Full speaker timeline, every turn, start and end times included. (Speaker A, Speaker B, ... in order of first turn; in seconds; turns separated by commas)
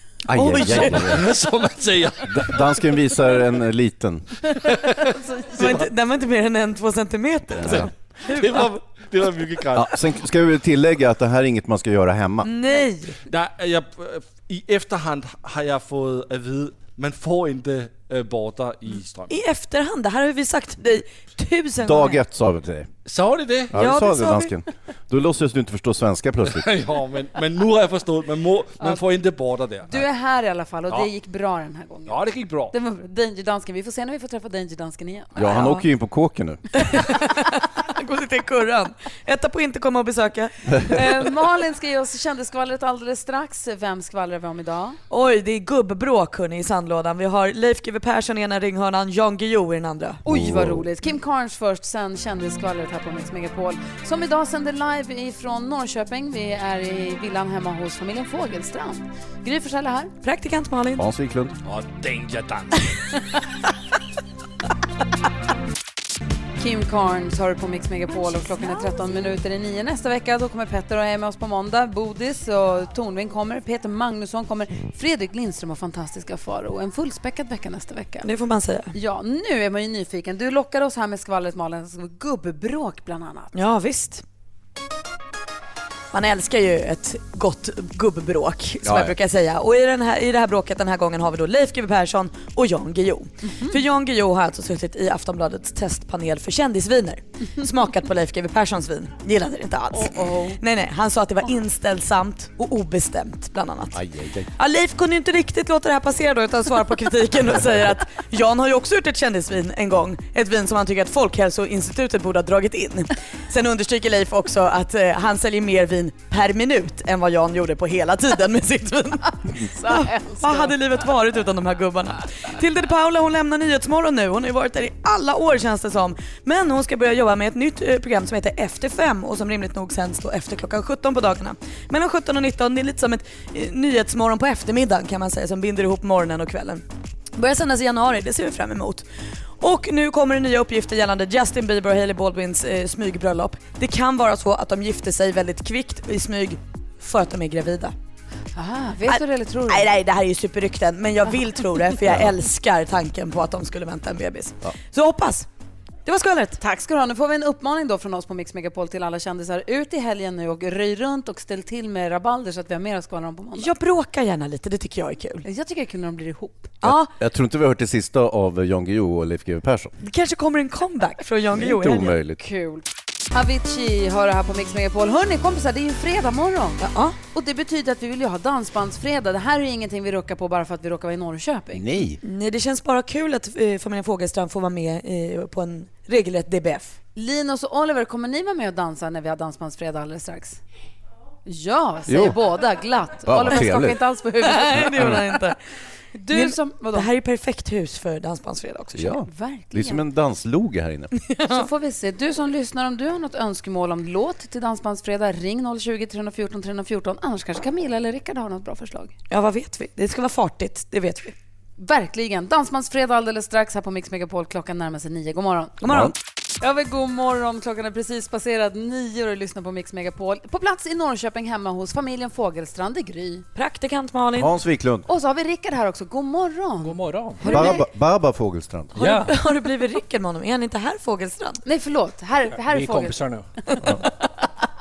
Speaker A: 0.3-1.3, Speaker B: 0.3-1.2, Speaker C: 0.7-2.6, Speaker A: 2.3-4.4, Speaker D: 5.1-5.8, Speaker B: 5.5-8.7, Speaker A: 7.5-7.9, Speaker C: 8.3-9.9, Speaker A: 9.7-12.5, Speaker B: 12.4-13.2, Speaker C: 13.3-19.4, Speaker B: 19.3-22.2, Speaker A: 21.8-22.9, Speaker C: 23.1-23.7, Speaker A: 23.7-26.7, Speaker B: 23.7-24.5, Speaker C: 26.5-30.0, Speaker D: 29.9-35.6, Speaker C: 32.1-32.7, Speaker A: 35.4-36.6, Speaker B: 35.5-35.9, Speaker B: 36.7-41.0, Speaker D: 40.9-45.0, Speaker B: 45.1-50.2, Speaker D: 50.2-60.1, Speaker A: 50.3-50.9, Speaker B: 60.2-61.0, Speaker A: 61.0-61.6, Speaker C: 61.7-62.7, Speaker D: 66.6-78.3, Speaker B: 78.2-78.9, Speaker D: 78.9-83.5, Speaker B: 83.5-84.2, Speaker B: 86.1-104.0, Speaker A: 88.8-89.2, Speaker D: 93.5-93.8, Speaker D: 99.9-100.6, Speaker A: 103.9-104.5, Speaker B: 104.6-136.8, Speaker D: 119.6-120.8, Speaker B: 137.4-139.1, Speaker B: 139.6-147.9, Speaker D: 148.6-149.9, Speaker B: 149.1-155.5, Speaker B: 156.1-156.6, Speaker D: 156.6-163.7, Speaker B: 163.6-165.4, Speaker D: 165.4-166.8, Speaker B: 166.8-167.1, Speaker A: 166.8-169.9, Speaker B: 170.0-172.2, Speaker A: 171.5-172.4, Speaker D: 172.4-181.9, Speaker B: 176.8-177.2, Speaker A: 181.7-182.2, Speaker B: 182.2-187.0, Speaker D: 187.2-190.6, Speaker D: 191.5-195.3, Speaker A: 192.1-192.4, Speaker A: 193.2-194.0, Speaker B: 194.4-195.6, Speaker A: 194.8-195.2, Speaker D: 196.1-197.1, Speaker B: 196.3-199.1, Speaker A: 198.9-201.1, Speaker D: 199.3-200.0, Speaker B: 201.3-201.7, Speaker D: 201.5-209.1, Speaker B: 209.3-211.3, Speaker D: 211.8-215.8, Speaker B: 215.8-216.1, Speaker A: 215.9-216.2, Speaker D: 216.6-223.4, Speaker B: 223.6-224.5, Speaker A: 224.3-225.1, Speaker D: 225.1-227.8, Speaker E: 226.8-227.5, Speaker B: 227.4-227.8, Speaker A: 227.5-229.0, Speaker B: 228.9-231.6, Speaker E: 229.0-229.3, Speaker D: 231.7-233.2, Speaker E: 232.5-233.5, Speaker D: 233.8-234.1